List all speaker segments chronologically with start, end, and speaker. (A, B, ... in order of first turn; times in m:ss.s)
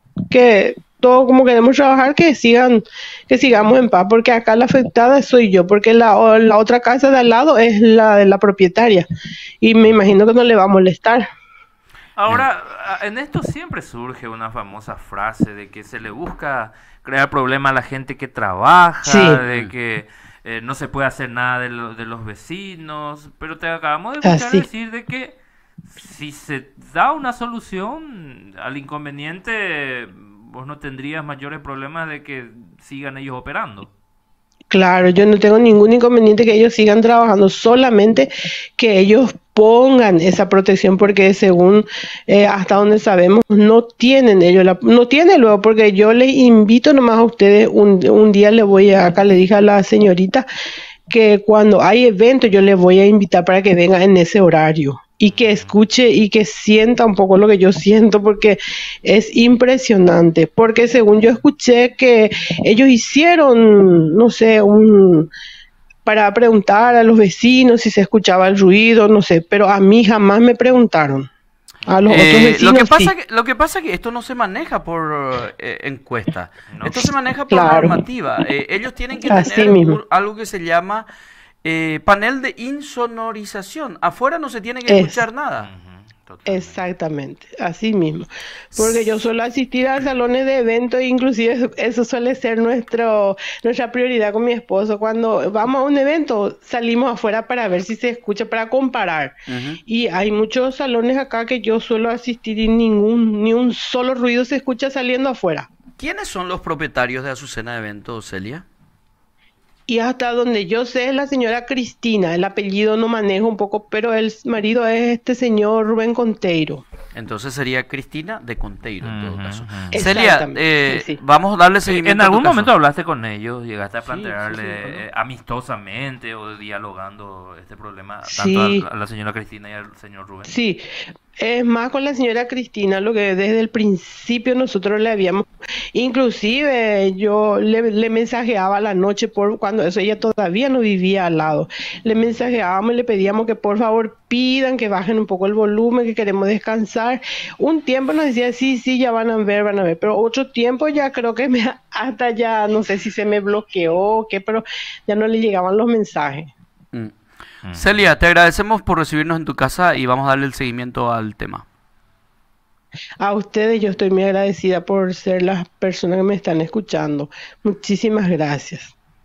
0:00.3-0:09.0 A
0:09.6-0:11.2 A
0:12.2-0:33.9 B
0:19.0-0:19.4 A
0:24.2-0:24.7 A
0:34.7-0:50.4 A
0:51.1-1:05.3 A
0:55.3-0:55.8 B
1:06.0-1:11.3 A
1:11.8-1:12.5 B
1:11.8-1:13.1 A
1:12.1-1:21.1 C
1:16.7-1:17.1 B
1:17.5-1:18.0 A
1:19.2-1:20.0 A
1:21.6-1:25.7 C
1:24.9-1:25.2 A
1:25.6-1:26.8 B
1:26.4-1:45.7 A
1:39.5-1:39.8 C
1:46.0-1:48.6 C
1:49.9-1:56.8 A
1:57.1-2:02.7 C
1:59.0-2:00.0 B
1:59.9-2:01.2 A
2:01.8-2:10.5 B
2:04.0-2:05.0 C
2:08.3-2:08.8 A
2:10.4-2:10.8 A
2:11.4-2:36.5 A
2:37.6-2:38.1 B
2:37.7-2:41.6 C
2:43.2-2:48.9 A